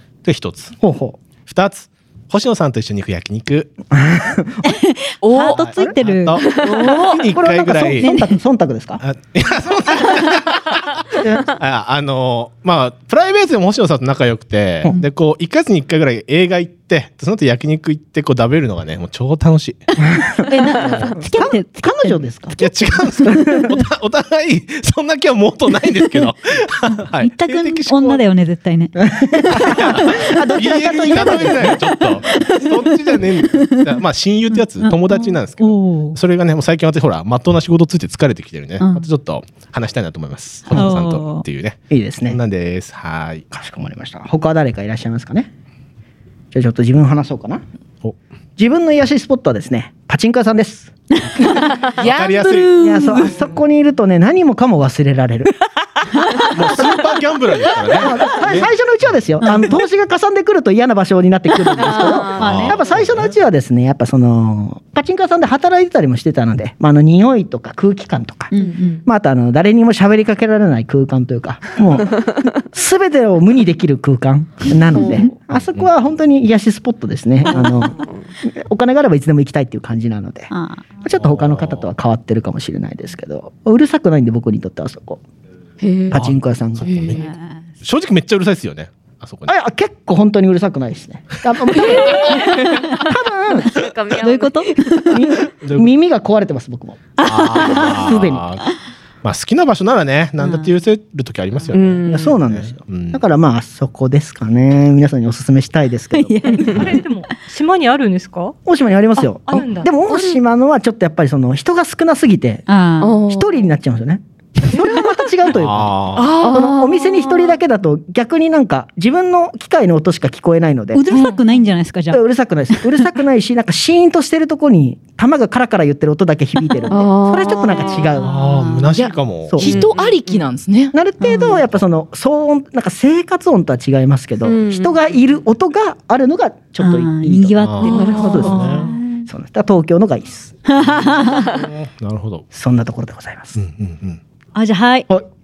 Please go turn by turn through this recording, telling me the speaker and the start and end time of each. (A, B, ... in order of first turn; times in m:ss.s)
0:00.2-0:00.7 A
0:00.8-0:01.2 B
0:01.4-0:03.7 A
0:03.9-0:04.8 B
0:04.6-0:07.1 C
0:05.2-0:05.8 D
0:05.5-0:08.2 A
0:06.7-0:07.2 D
0:07.2-0:09.0 B
0:08.0-0:08.4 C
0:09.0-0:20.0 A
0:11.1-0:11.4 B
0:20.4-0:22.4 C
0:20.8-0:21.2 A
0:21.2-0:23.8 B
0:22.6-0:28.2 A
0:26.0-0:26.3 C
0:27.2-0:30.4 C
0:29.0-0:32.0 B
0:29.5-0:43.4 A
0:31.1-0:33.9 C
0:34.5-0:36.2 C
0:38.8-0:39.1 C
0:40.7-0:41.4 C
0:41.9-0:42.4 B
0:43.5-0:45.5 B
0:46.5-0:47.6 B
0:48.6-0:50.9 B
0:51.9-0:53.4 D
0:52.0-0:52.8 A
0:52.8-0:55.6 B
0:56.5-0:59.1 A
0:58.0-1:08.5 B
0:59.4-0:59.8 C
1:01.8-1:02.7 E
1:02.3-1:03.3 A
1:02.4-1:02.8 C
1:08.5-1:09.0 C
1:08.6-1:09.0 E
1:09.0-1:20.5 B
1:15.0-1:15.3 C
1:20.5-1:21.0 C
1:21.0-1:25.2 B
1:21.1-1:21.9 A
1:25.8-1:26.2 E
1:26.1-1:27.2 B
1:26.1-1:27.3 A
1:26.8-1:27.2 E
1:27.2-1:27.6 C
1:27.8-1:29.5 A
1:29.5-1:33.7 B
1:31.8-1:32.6 D
1:31.9-1:32.6 E
1:33.6-1:35.0 E
1:34.1-1:35.4 C
1:35.1-1:38.5 B
1:35.4-1:35.9 A
1:37.2-1:38.7 C
1:37.2-1:38.6 A
1:39.2-1:43.2 A
1:40.4-1:40.7 C
1:41.7-1:42.3 E
1:42.0-1:46.9 B
1:46.1-1:47.0 C
1:46.6-1:48.6 F
1:48.6-1:52.7 B
1:49.4-1:50.4 F
1:52.7-1:53.1 C
1:53.0-1:53.6 E
1:53.2-2:01.1 B
1:55.5-1:56.3 A
1:56.1-1:56.7 D
1:56.4-1:57.6 E
2:00.9-2:02.2 C
2:01.1-2:01.4 D
2:02.1-2:08.4 B
2:06.9-2:08.2 E
2:08.2-2:09.7 A
2:08.3-2:08.9 C
2:08.9-2:10.9 D
2:09.5-2:09.8 B
2:09.6-2:10.4 E
2:10.9-2:21.1 B
2:11.2-2:11.6 C
2:14.4-2:15.0 E
2:16.8-2:19.3 C
2:17.6-2:18.9 A
2:17.8-2:18.3 E
2:18.3-2:18.7 F
2:20.7-2:21.6 C
2:21.0-2:22.4 A
2:22.5-2:23.6 B
2:23.6-2:24.2 A
2:24.5-2:25.1 C